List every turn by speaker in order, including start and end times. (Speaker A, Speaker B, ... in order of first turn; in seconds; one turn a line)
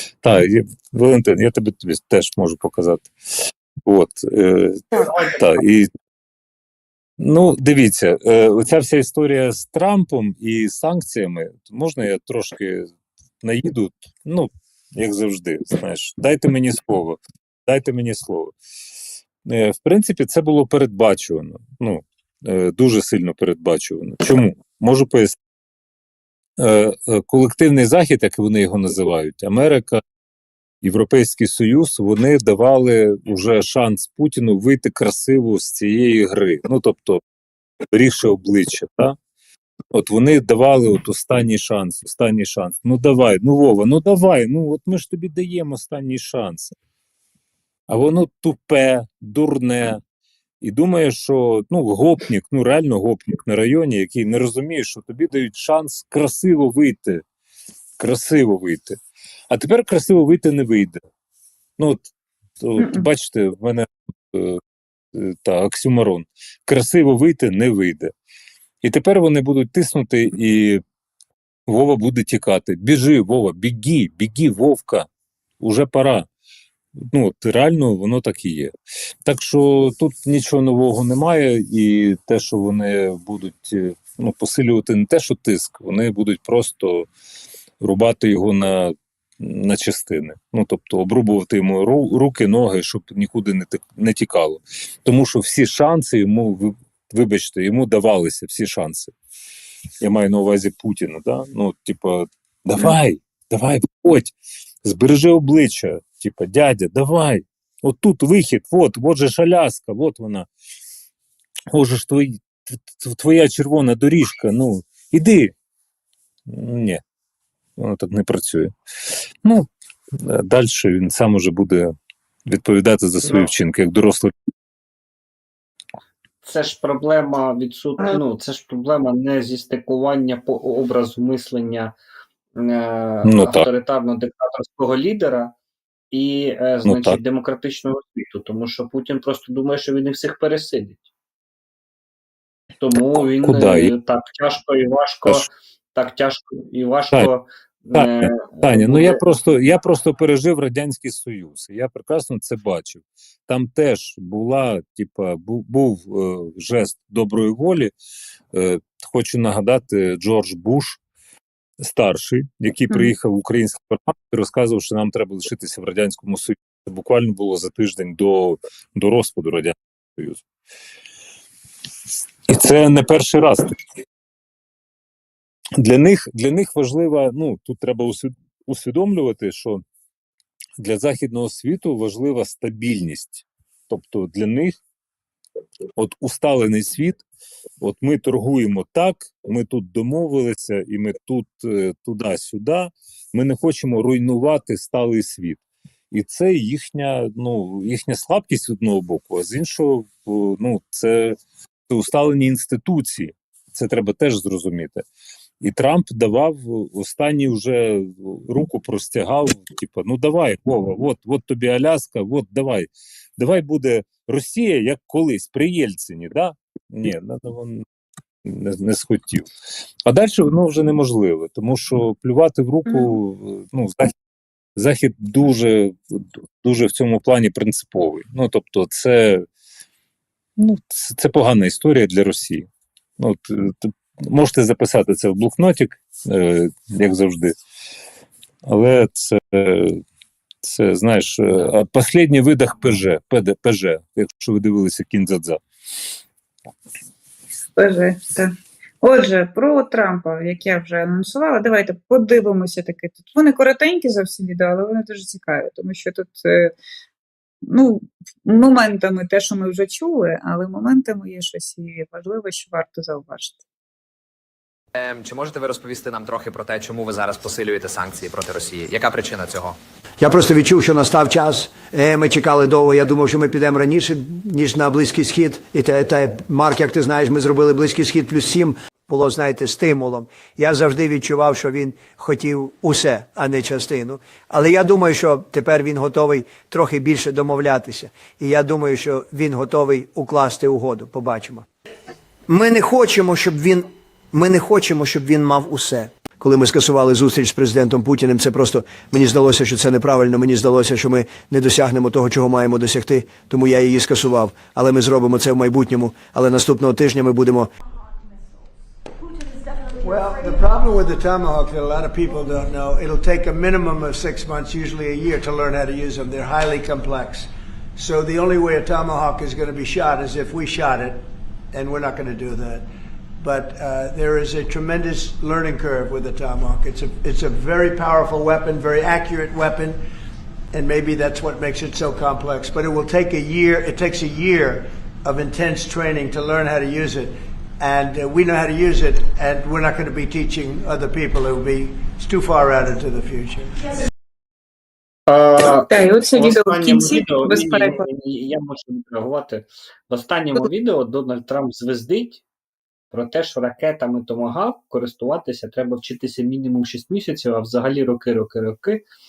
Speaker A: 0.2-3.1
Speaker A: 3.8-5.9
Speaker B: 5.0-5.5
Speaker A: 7.2-12.9
Speaker A: 13.4-18.5
Speaker A: 19.4-25.4
Speaker A: 26.6-30.0
Speaker A: 30.8-37.2
Speaker A: 37.9-39.1
Speaker A: 39.9-46.7
Speaker A: 47.9-50.0
Speaker A: 50.6-57.2
Speaker A: 58.0-59.0
Speaker A: 59.5-61.0
Speaker A: 61.8-62.1
Speaker A: 62.6-64.6
Speaker C: 62.8-63.1
Speaker A: 65.1-68.1
Speaker A: 68.8-70.8
Speaker A: 71.7-75.1
Speaker A: 75.6-76.3
Speaker A: 77.1-78.7
Speaker A: 79.2-87.1
Speaker A: 87.8-99.1
Speaker A: 100.0-110.5
Speaker A: 111.7-115.5
Speaker A: 116.5-117.0
Speaker A: 117.8-118.7
Speaker A: 120.2-121.9
Speaker A: 122.5-124.3
Speaker B: 123.2-123.5
Speaker B: 126.4-131.9
Speaker B: 132.6-135.5
Speaker A: 133.2-133.7
Speaker B: 136.1-141.1
Speaker A: 136.8-137.2
Speaker B: 142.8-149.2
Speaker A: 143.0-143.9
Speaker A: 147.9-157.9
Speaker A: 158.5-161.0
Speaker A: 161.8-170.4
Speaker A: 172.5-173.7
Speaker A: 175.8-179.8
Speaker A: 180.8-184.8
Speaker A: 186.0-187.2
Speaker A: 187.8-201.3
Speaker A: 201.9-205.0
Speaker A: 205.6-217.8
Speaker A: 218.4-219.5
Speaker A: 220.1-224.1
Speaker C: 222.9-223.1
Speaker A: 224.8-229.4
Speaker A: 230.6-232.7
Speaker A: 233.2-237.5
Speaker A: 238.7-240.0
Speaker A: 240.6-245.6
Speaker C: 247.8-256.7
Speaker C: 257.6-263.6
Speaker D: 264.9-269.8
Speaker E: 270.2-291.6
Speaker E: 292.5-307.7
Speaker F: 310.0-321.2
Speaker F: 321.7-322.9
Speaker F: 323.4-330.0
Speaker F: 330.7-343.7
Speaker B: 345.3-352.4
Speaker C: 345.6-348.0
Speaker B: 353.1-359.0